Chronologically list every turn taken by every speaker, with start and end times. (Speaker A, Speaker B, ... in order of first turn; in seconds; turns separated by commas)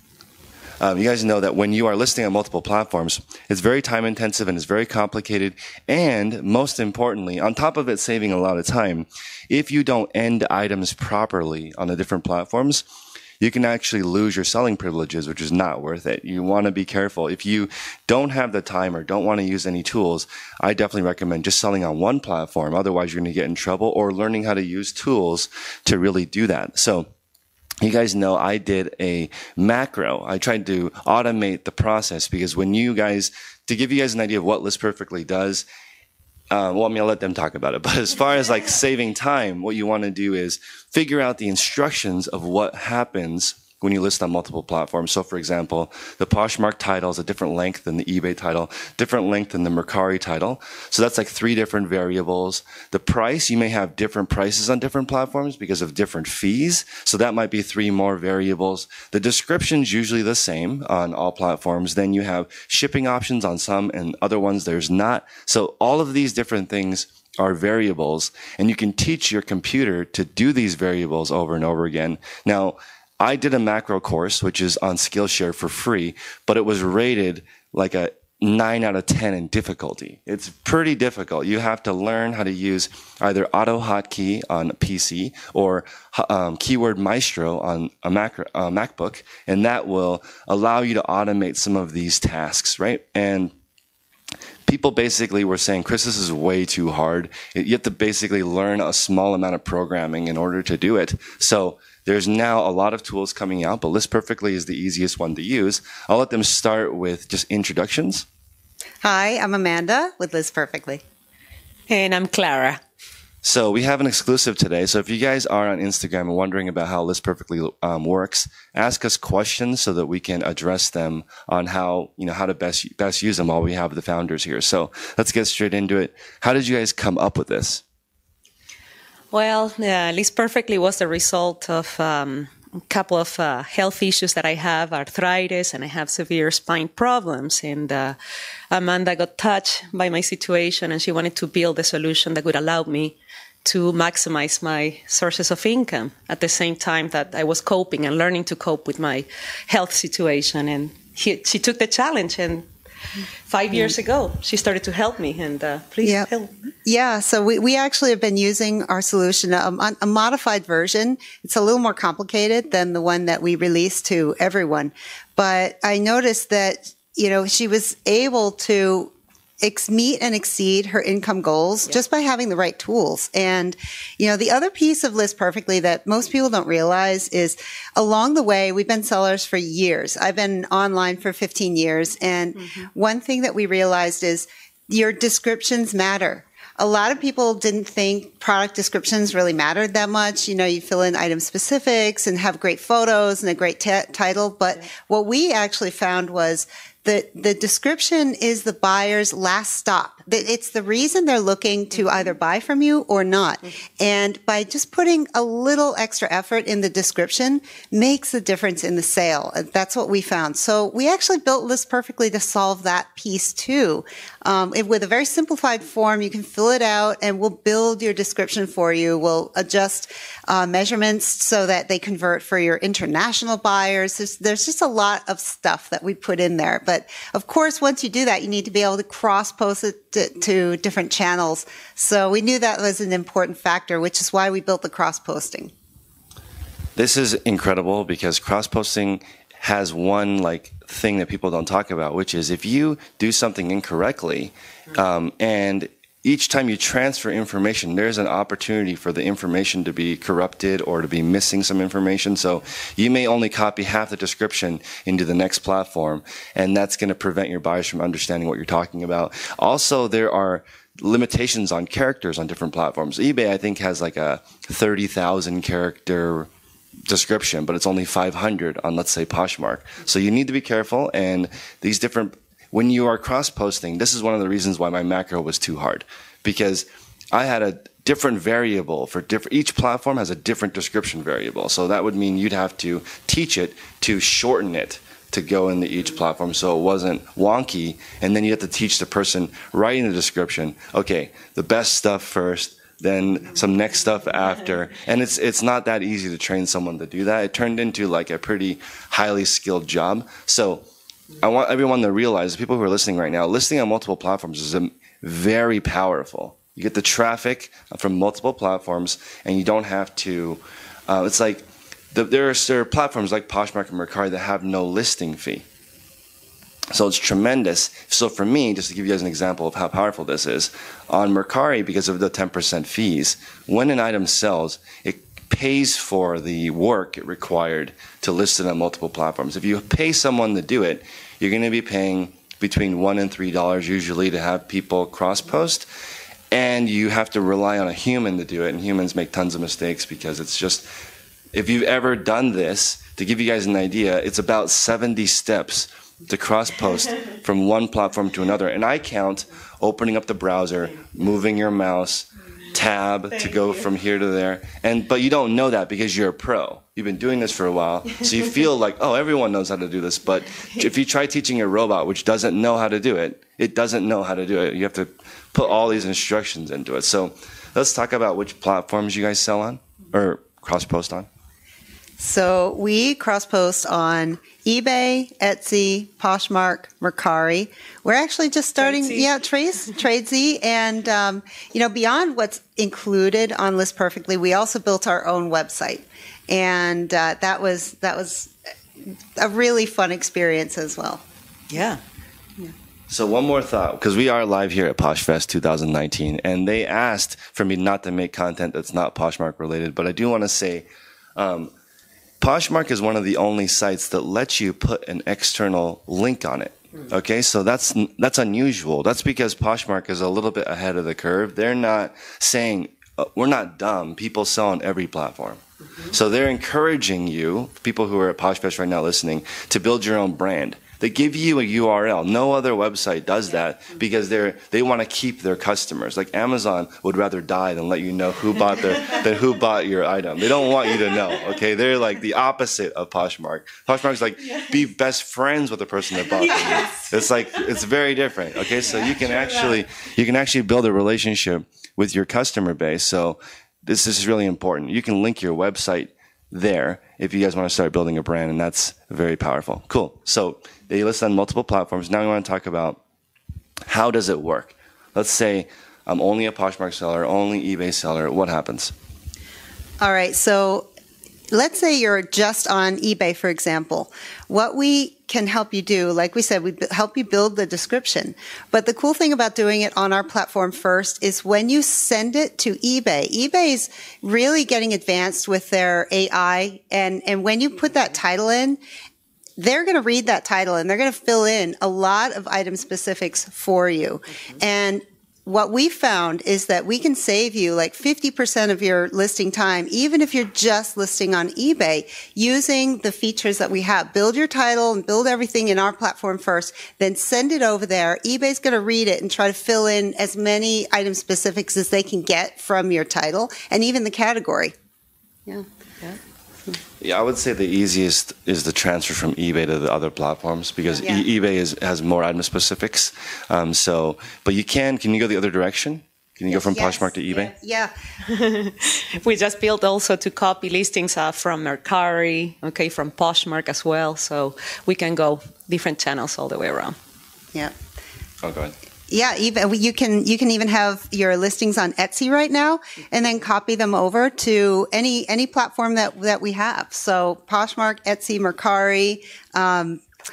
Speaker A: 0.8-12.8, Speaker A: 13.4-27.1, Speaker A: 27.8-35.6, Speaker A: 36.5-93.5, Speaker A: 94.7-108.2, Speaker B: 109.0-111.0, Speaker C: 111.9-112.8, Speaker A: 113.4-127.8, Speaker C: 129.3-138.2, Speaker C: 138.7-152.7, Speaker C: 153.5-156.5, Speaker B: 156.0-156.3, Speaker B: 156.8-235.7, Speaker A: 237.0-266.5, Speaker A: 267.1-300.8, Speaker A: 301.4-315.6, Speaker A: 316.9-335.9, Speaker A: 336.5-340.9, Speaker A: 341.5-371.3, Speaker B: 372.2-388.5, Speaker C: 378.8-379.3, Speaker B: 389.4-391.2, Speaker C: 391.7-392.0, Speaker A: 393.1-401.7, Speaker A: 402.4-453.0, Speaker C: 436.5-437.1, Speaker A: 453.9-458.9, Speaker B: 460.0-460.9, Speaker B: 461.5-478.8, Speaker B: 479.6-504.7, Speaker A: 507.0-517.5, Speaker B: 511.0-511.3, Speaker B: 516.5-517.9, Speaker C: 518.2-527.0, Speaker A: 528.4-528.7, Speaker B: 529.1-540.0